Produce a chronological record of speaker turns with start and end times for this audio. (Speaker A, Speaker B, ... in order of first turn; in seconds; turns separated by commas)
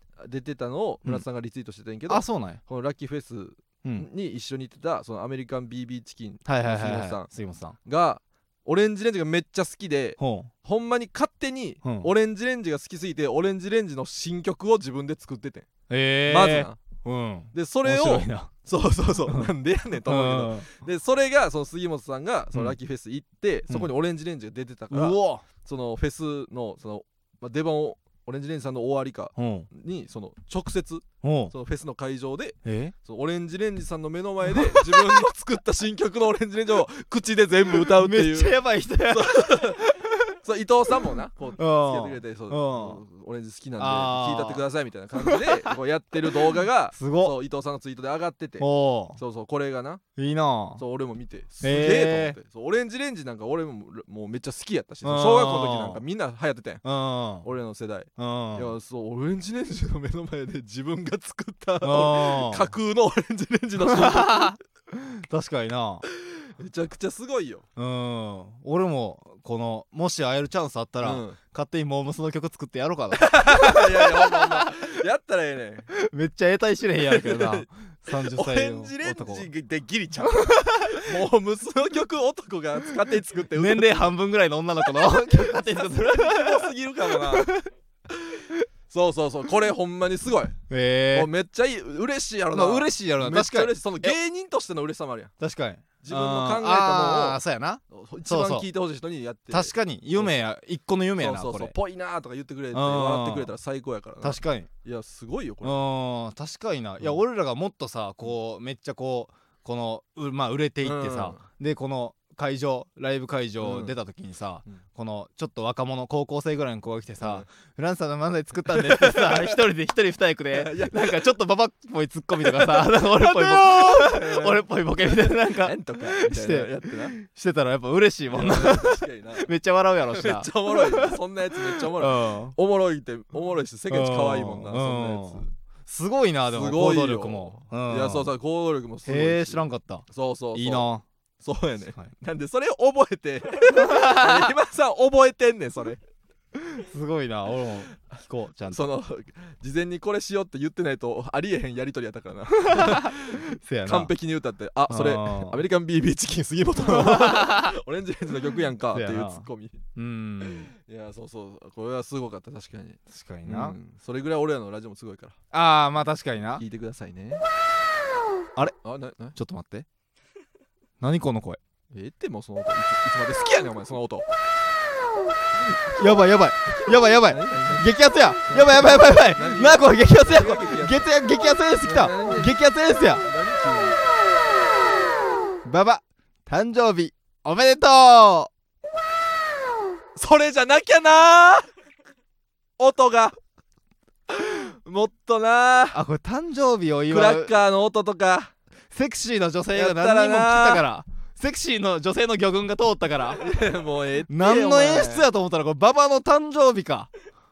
Speaker A: 0.2-7.3, Speaker B: 2.1-2.6, Speaker B: 6.5-7.8, Speaker A: 7.8-15.7, Speaker B: 10.2-10.5, Speaker B: 11.8-12.1, Speaker B: 15.9-18.5, Speaker A: 16.3-16.8, Speaker A: 17.5-38.6, Speaker B: 20.0-20.7, Speaker B: 24.9-25.4, Speaker B: 29.4-29.7, Speaker B: 31.2-31.5, Speaker B: 32.6-32.9, Speaker B: 34.6-35.0, Speaker B: 37.8-40.1, Speaker A: 39.1-39.8, Speaker A: 40.4-50.0, Speaker B: 41.6-43.0, Speaker B: 43.8-44.6, Speaker B: 45.2-45.7, Speaker B: 46.9-47.3, Speaker B: 48.6-49.2, Speaker B: 50.1-50.8, Speaker A: 50.8-56.8, Speaker B: 51.6-52.4, Speaker B: 55.0-56.0, Speaker B: 56.8-57.5, Speaker A: 57.4-64.6, Speaker B: 58.2-58.7, Speaker B: 61.8-62.7, Speaker B: 63.8-66.0, Speaker A: 66.1-67.6, Speaker B: 67.8-74.7, Speaker A: 71.0-71.4, Speaker A: 73.1-75.9, Speaker B: 75.9-79.5, Speaker A: 77.0-84.1, Speaker B: 80.3-80.8, Speaker B: 83.5-87.7, Speaker A: 84.9-87.5, Speaker A: 88.1-90.6, Speaker B: 90.7-91.3, Speaker A: 91.1-95.3, Speaker B: 92.5-94.2, Speaker B: 95.4-98.7, Speaker A: 96.0-100.3, Speaker B: 99.5-101.7, Speaker A: 101.2-105.8, Speaker B: 102.7-103.5, Speaker B: 104.2-104.7, Speaker B: 105.6-131.2, Speaker A: 110.8-111.4, Speaker A: 113.6-113.9, Speaker A: 117.2-117.5, Speaker A: 118.7-119.6, Speaker A: 120.5-121.3, Speaker A: 122.4-127.2, Speaker A: 128.3-129.5, Speaker A: 130.1-135.5, Speaker B: 131.8-132.6, Speaker B: 133.9-138.3, Speaker A: 136.5-140.9, Speaker B: 139.1-141.0, Speaker A: 141.4-146.0, Speaker B: 143.7-144.5, Speaker B: 146.6-148.9, Speaker A: 148.7-159.8, Speaker B: 152.6-154.1, Speaker B: 154.9-155.6, Speaker B: 156.8-157.7, Speaker B: 158.9-160.7, Speaker A: 160.8-165.4, Speaker B: 163.1-163.8, Speaker B: 165.5-166.6, Speaker A: 166.5-167.4, Speaker A: 168.8-169.3, Speaker B: 169.3-169.8, Speaker B: 171.0-171.6, Speaker A: 171.9-174.2, Speaker B: 175.9-183.2, Speaker A: 176.7-177.9, Speaker A: 178.4-181.1, Speaker A: 181.8-182.6, Speaker A: 183.2-184.0, Speaker B: 185.6-188.5, Speaker A: 190.1-191.7, Speaker A: 192.8-193.4, Speaker A: 194.3-196.0, Speaker B: 195.9-197.6, Speaker A: 197.1-198.5, Speaker B: 198.9-203.5, Speaker A: 199.7-200.8, Speaker A: 203.4-205.3, Speaker B: 204.3-207.1